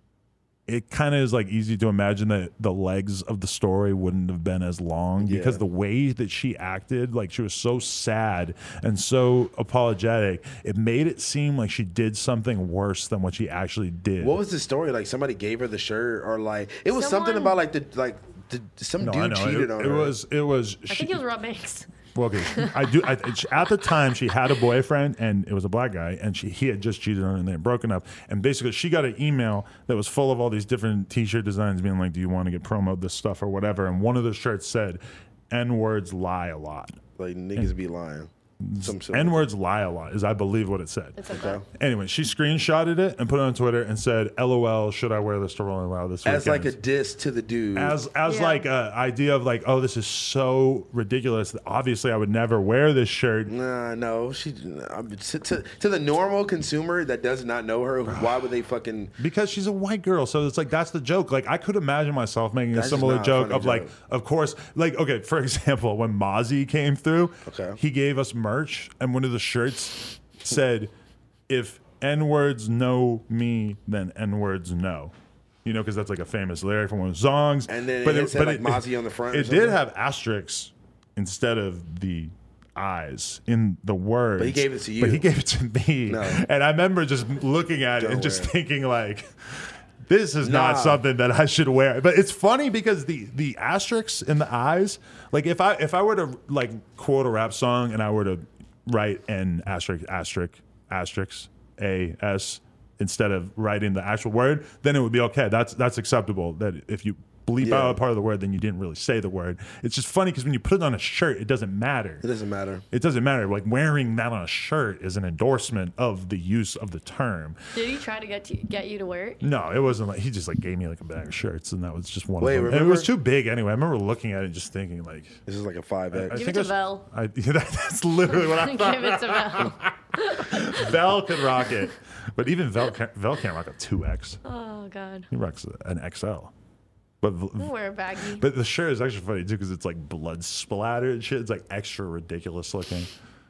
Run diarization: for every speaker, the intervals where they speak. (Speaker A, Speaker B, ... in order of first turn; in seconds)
Speaker A: 0.7-14.4, 19.0-21.2, 22.1-37.0, 38.6-46.8, 47.7-53.5, 58.1-58.4, 59.2-70.9, 71.5-75.1, 75.6-112.2, 112.9-117.6, 119.4-125.4, 126.1-134.4, 135.3-136.5, 137.2-143.1
Speaker B: 5.2-5.6, 14.2-20.1, 37.2-39.5, 41.3-41.6, 46.2-48.0, 53.5-59.1, 62.7-63.9, 67.5-67.8, 77.7-79.8, 84.4-85.3, 86.1-86.4, 88.0-88.5, 90.4-91.0, 107.6-108.0, 112.2-112.8, 122.4-123.1, 125.5-126.4
Speaker C: 16.9-17.6, 20.9-21.9, 22.4-23.0, 41.1-41.6, 48.2-48.6, 117.7-119.4, 126.3-127.1, 128.3-130.9, 131.6-131.9, 134.4-135.3, 137.6-138.4